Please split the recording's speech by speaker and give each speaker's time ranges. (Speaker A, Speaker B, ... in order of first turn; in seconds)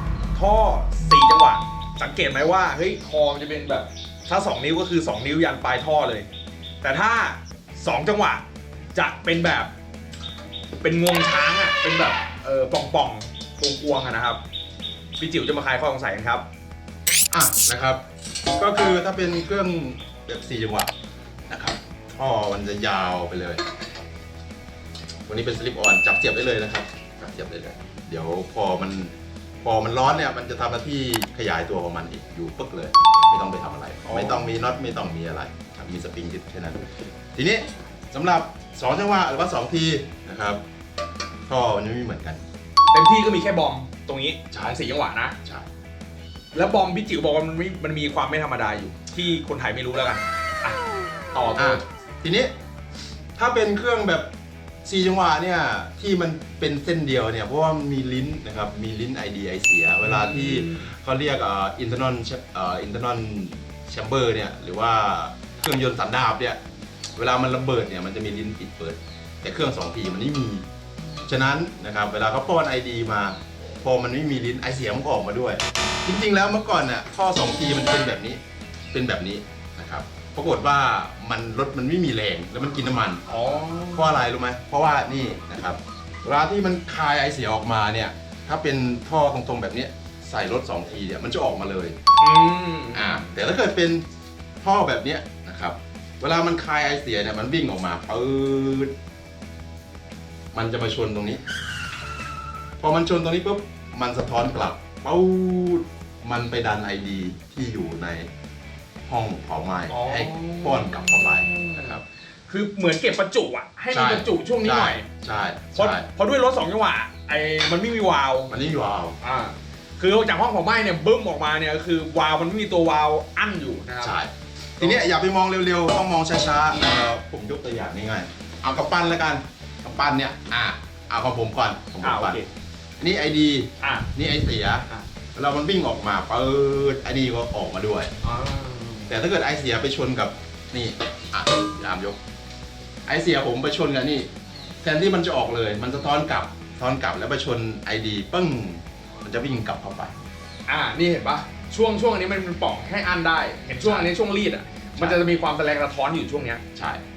Speaker A: 0.3-6.3, 6.8-8.4, 8.9-9.7, 10.8-14.4, 15.2-16.4, 34.1-34.5, 42.9-45.4, 46.5-50.8, 51.3-51.8, 60.0-60.9, 83.3-84.2, 92.2-93.3, 109.9-115.1, 115.8-118.5, 119.2-124.2, 124.8-125.1, 132.0-132.5, 133.8-134.1, 138.2-139.1, 150.7-156.6
Speaker B: 17.3-18.0, 18.6-20.9, 21.5-23.6, 25.3-40.6, 41.5-42.4, 51.6-52.5, 53.4-54.3, 54.9-66.6, 67.2-70.7, 71.3-78.4, 78.9-83.2, 83.9-92.0, 92.9-94.0, 94.6-98.9, 100.5-101.4, 102.8-108.3, 109.1-112.0, 113.9-116.1, 118.5-119.2, 124.0-132.4, 133.0-138.1, 139.1-142.2, 143.1-144.3, 144.8-150.1, 153.8-154.1, 156.8-157.0